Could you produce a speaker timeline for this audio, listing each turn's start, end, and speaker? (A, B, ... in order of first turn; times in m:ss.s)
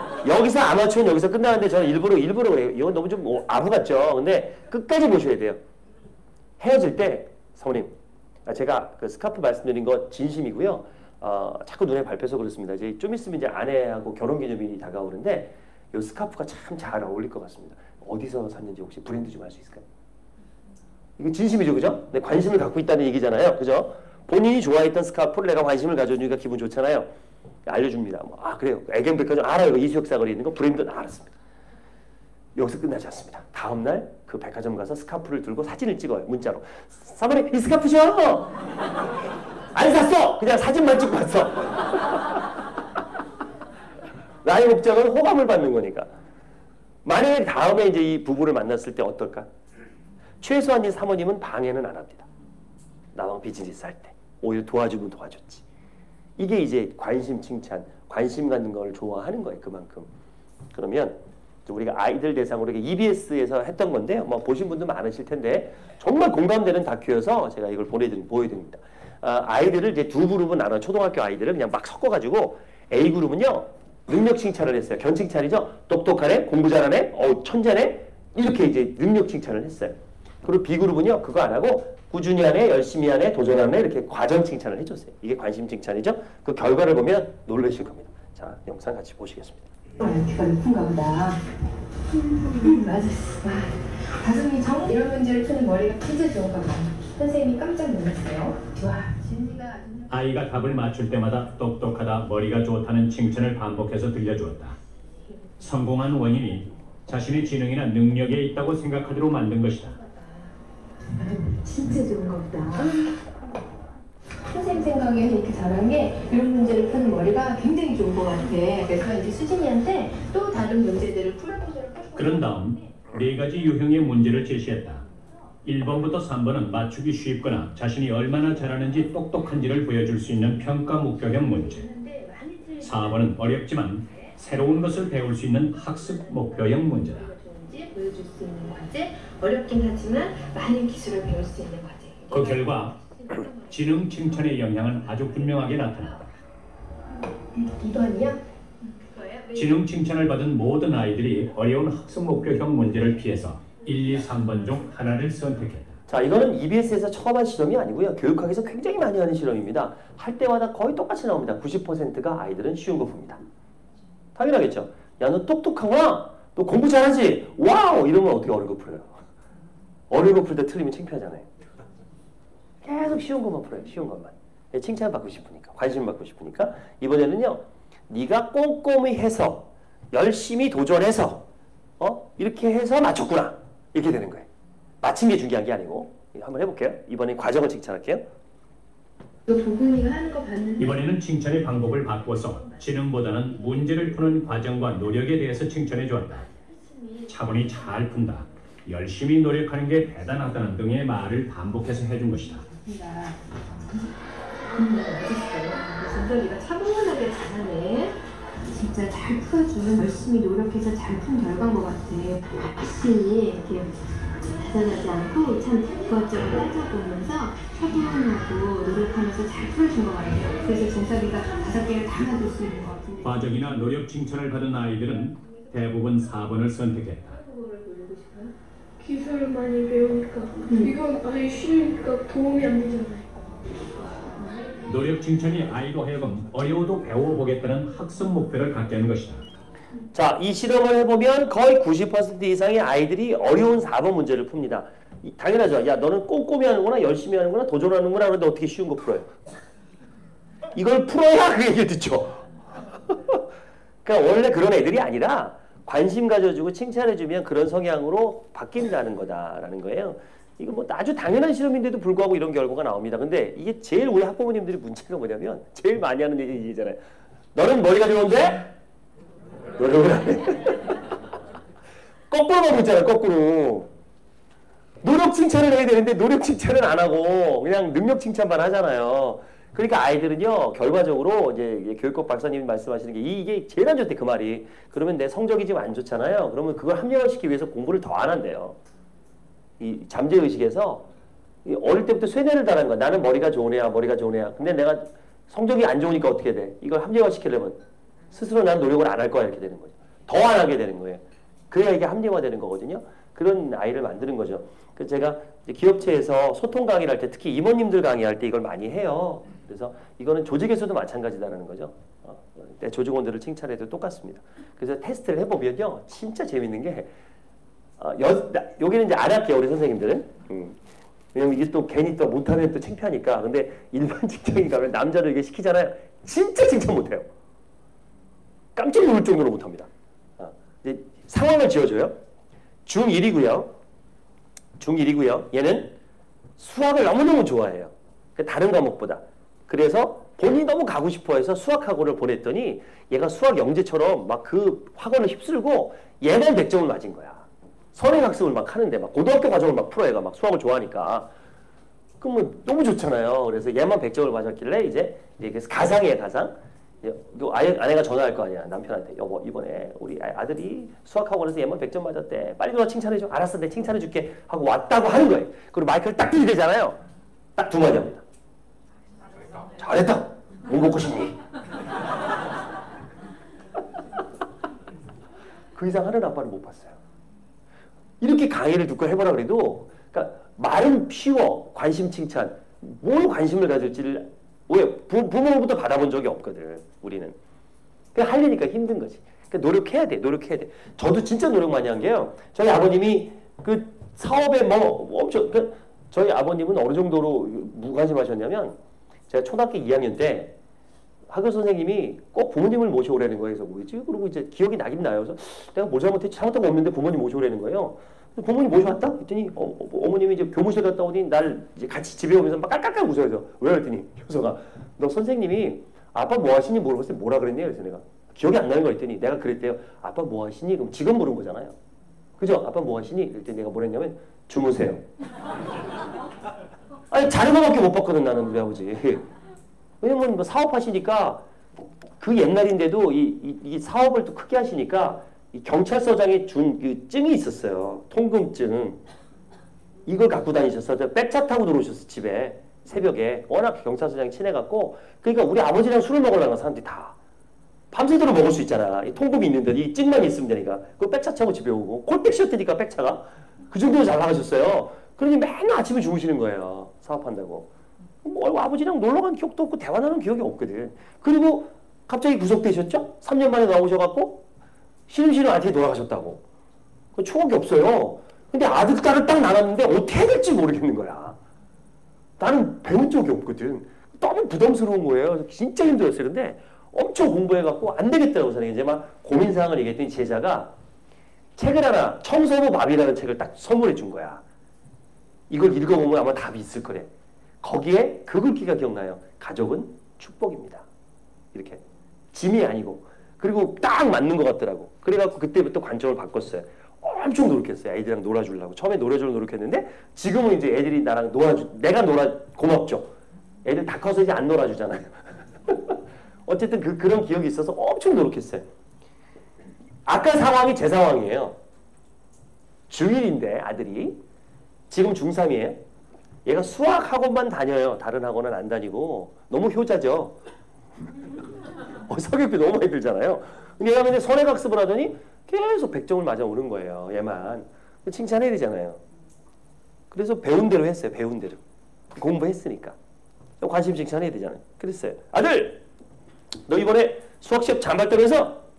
0:00.2-0:05.6 A
0:06.6-0:07.9 A
0:08.4-0:19.8 A
0:21.2-0:27.1 A
0:27.7-0:31.3 A
0:32.6-0:38.6 A
0:39.7-0:42.4 A
0:44.4-0:46.1 A
0:47.0-0:49.5 A
0:50.4-0:52.3 A
0:53.1-0:55.6 A
0:56.4-1:00.1 A
1:00.7-1:29.7 A
1:30.0-1:31.4 B
1:32.2-1:32.7 C
1:32.4-1:40.1 B
1:40.1-1:44.8 D
1:45.6-1:50.0 D
1:51.2-1:53.1 B
1:54.5-2:02.5 B
2:02.2-2:05.0 D
2:05.6-2:11.9 D
2:11.7-2:13.3 B
2:12.8-2:17.3 D
2:16.9-2:22.6 B
2:22.3-2:23.0 D
2:23.5-2:26.3 D
2:27.5-2:29.6 B
2:29.6-2:36.0 D
2:36.1-2:43.4 A
2:44.4-2:49.2 A
2:50.1-2:51.5 A
2:52.8-3:01.4 A
3:02.0-3:04.5 A
3:05.0-3:08.2 A
3:09.5-3:11.0 B
3:10.8-3:16.5 D
3:16.9-3:17.2 B
3:17.3-3:22.7 D
3:22.8-3:23.4 B
3:24.8-3:43.4 B
3:43.2-3:47.4 D
3:47.3-3:48.5 B
3:49.0-3:53.3 C
3:50.7-3:50.9 B
3:54.9-3:59.5 D
4:00.1-4:09.3 A
4:10.7-4:13.4 A
4:14.0-4:27.0 A
4:27.6-4:28.7 A
4:29.8-4:31.0 A
4:32.3-4:33.9 A
4:35.0-4:48.8 A
4:49.8-4:51.1 A
4:51.6-4:57.8 A
4:58.3-5:17.1 A
5:18.0-5:20.8 A
5:21.3-5:27.3 A
5:28.8-5:32.1 A
5:32.9-5:33.7 A
5:34.8-5:36.0 A
5:36.6-5:51.3 A
5:52.2-6:07.0 A
6:07.6-6:08.2 A
6:09.8-6:11.4 A
6:15.8-6:17.0 A
6:18.2-6:27.4 A
6:28.2-6:38.8 A
6:39.3-6:40.6 A
6:41.3-7:01.7 A
7:02.4-7:05.0 A
7:07.1-7:09.2 A
7:10.0-7:19.0 A
7:20.1-7:27.2 A
7:27.9-7:37.7 A
7:38.2-7:44.4 A
7:45.1-7:46.4 A
7:47.2-7:51.4 A
7:52.4-8:00.7 A
8:01.6-8:04.4 A
8:05.5-8:07.1 A
8:07.6-8:10.8 A
8:11.5-8:11.8 A
8:12.3-8:23.1 A
8:23.6-8:28.7 A
8:30.1-8:31.6 A
8:32.9-8:34.2 A
8:34.9-8:35.8 A
8:36.4-8:40.4 A
8:42.1-8:49.0 A
8:50.1-8:51.6 A
8:52.2-8:53.0 A
8:53.6-8:55.8 A
8:56.7-8:58.6 A